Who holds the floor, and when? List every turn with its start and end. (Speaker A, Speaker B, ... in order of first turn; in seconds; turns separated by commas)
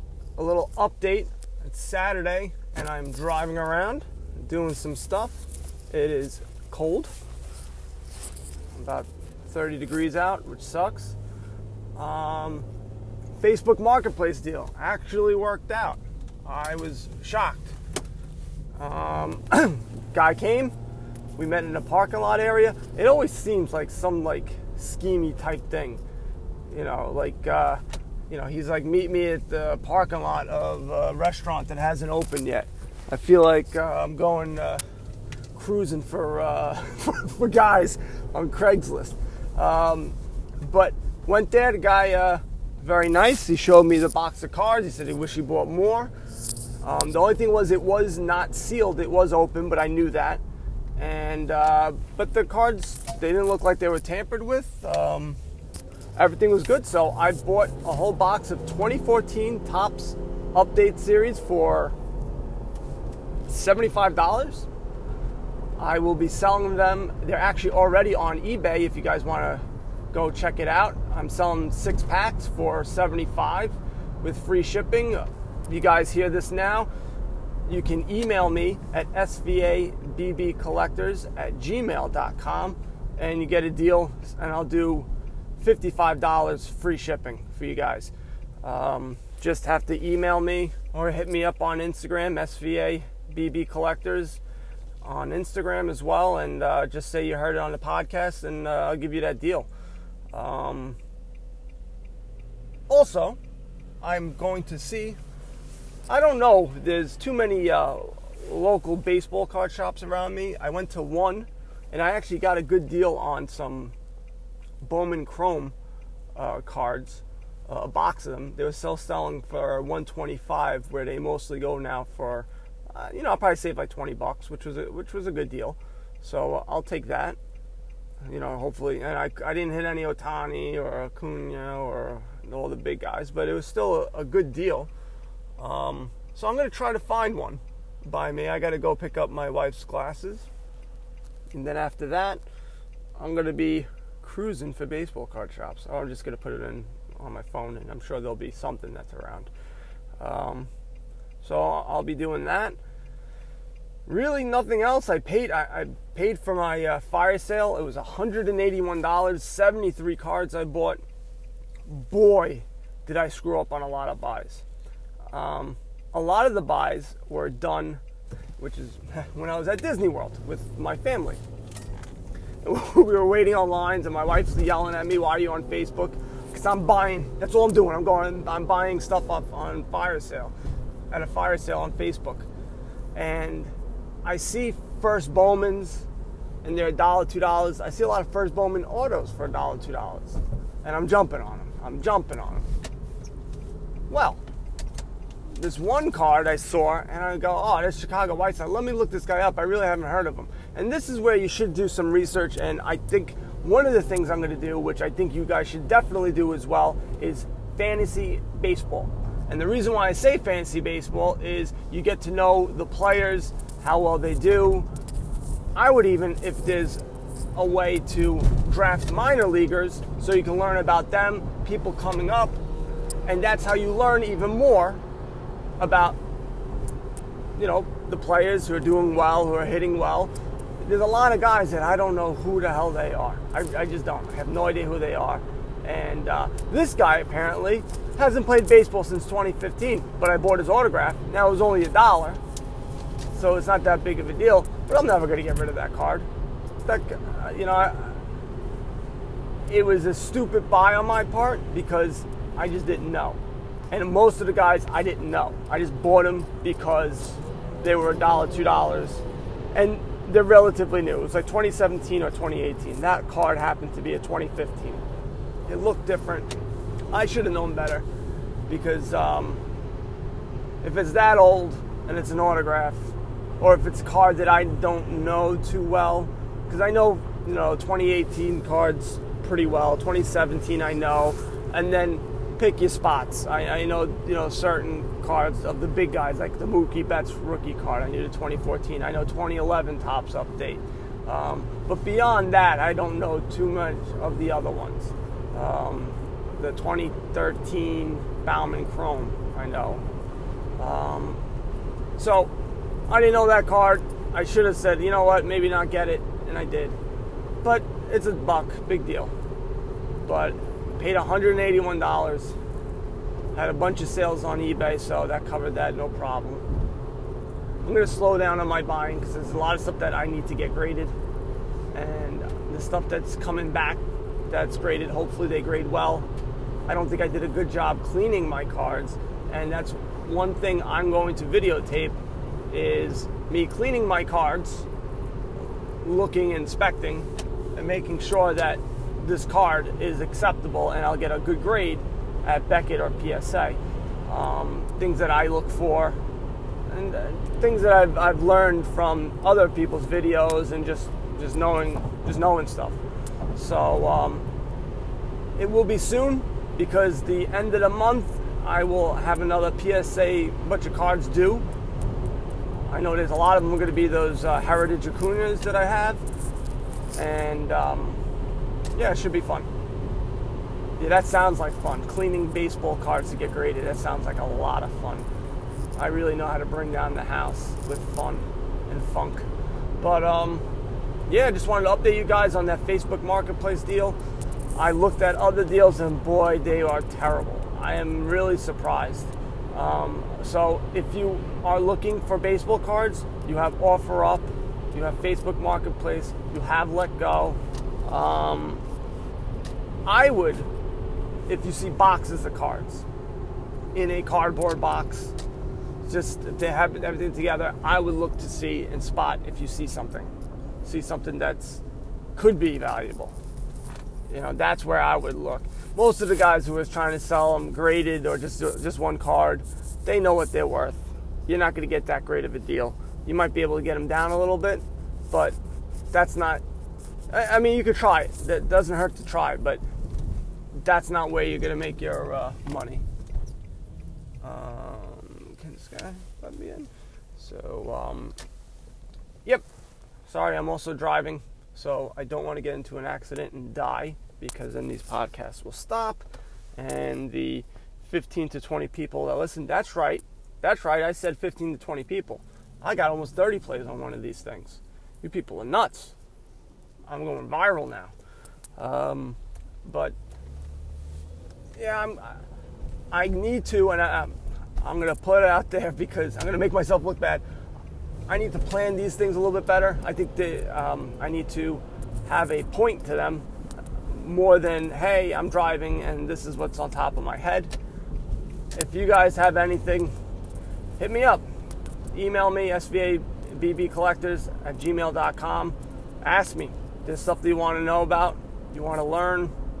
Speaker A: 0.4-7.1, Speaker A: 8.7-11.2, Speaker A: 11.9-12.7, Speaker A: 13.4-17.8, Speaker A: 18.8-20.7, Speaker A: 21.4-26.0, Speaker A: 26.7-34.8, Speaker A: 35.5-46.1, Speaker A: 46.8-50.4, Speaker A: 51.0-55.4, Speaker A: 56.1-61.9, Speaker A: 63.5-64.7, Speaker A: 65.8-76.9, Speaker A: 77.7-88.1, Speaker A: 88.6-94.4, Speaker A: 95.0-99.7, Speaker A: 100.3-101.0, Speaker A: 102.9-103.4, Speaker A: 104.0-105.2, Speaker A: 106.1-113.9, Speaker A: 114.8-115.7, Speaker A: 116.3-127.4, Speaker A: 128.2-134.9, Speaker A: 135.6-140.5, Speaker A: 141.5-142.4, Speaker A: 143.2-149.5, Speaker A: 150.2-150.7, Speaker A: 151.4-152.8, Speaker A: 154.1-161.0, Speaker A: 161.8-164.6, Speaker A: 165.3-168.0, Speaker A: 168.6-171.4, Speaker A: 172.6-180.5, Speaker A: 181.1-182.5, Speaker A: 183.1-183.7, Speaker A: 184.2-186.1, Speaker A: 186.6-192.7, Speaker A: 194.1-194.4, Speaker A: 195.5-214.9, Speaker A: 215.8-217.0, Speaker A: 217.5-222.6, Speaker A: 223.2-225.0, Speaker A: 225.8-226.2, Speaker A: 227.6-242.4, Speaker A: 243.3-246.3, Speaker A: 246.8-248.2, Speaker A: 249.7-253.4, Speaker A: 253.9-265.0, Speaker A: 265.7-266.5, Speaker A: 267.1-268.0, Speaker A: 268.7-269.6, Speaker A: 270.8-300.0, Speaker A: 300.8-301.4, Speaker A: 302.2-302.5, Speaker A: 303.1-307.0, Speaker A: 307.6-309.3, Speaker A: 310.2-312.6, Speaker A: 313.5-316.6, Speaker A: 317.8-321.1, Speaker A: 321.9-326.3, Speaker A: 326.9-332.2, Speaker A: 332.7-334.9, Speaker A: 336.0-346.2, Speaker A: 346.9-353.0, Speaker A: 353.5-354.4, Speaker A: 355.6-361.6, Speaker A: 362.9-366.2, Speaker A: 367.1-368.2, Speaker A: 368.9-369.7, Speaker A: 371.0-375.3, Speaker A: 375.9-379.4, Speaker A: 380.0-380.6, Speaker A: 381.3-384.2, Speaker A: 384.7-398.8, Speaker A: 400.1-400.7, Speaker A: 401.5-403.0, Speaker A: 403.9-405.3, Speaker A: 406.1-410.3, Speaker A: 410.8-411.8, Speaker A: 412.4-413.3, Speaker A: 414.3-425.6, Speaker A: 426.1-426.6, Speaker A: 427.3-429.8, Speaker A: 430.7-433.0, Speaker A: 434.4-438.4, Speaker A: 440.3-446.2, Speaker A: 446.8-456.1, Speaker A: 457.1-458.1, Speaker A: 458.8-460.1, Speaker A: 461.8-462.4, Speaker A: 463.1-467.4, Speaker A: 468.3-473.4, Speaker A: 474.1-477.7, Speaker A: 478.7-480.1, Speaker A: 481.0-481.4, Speaker A: 482.1-489.5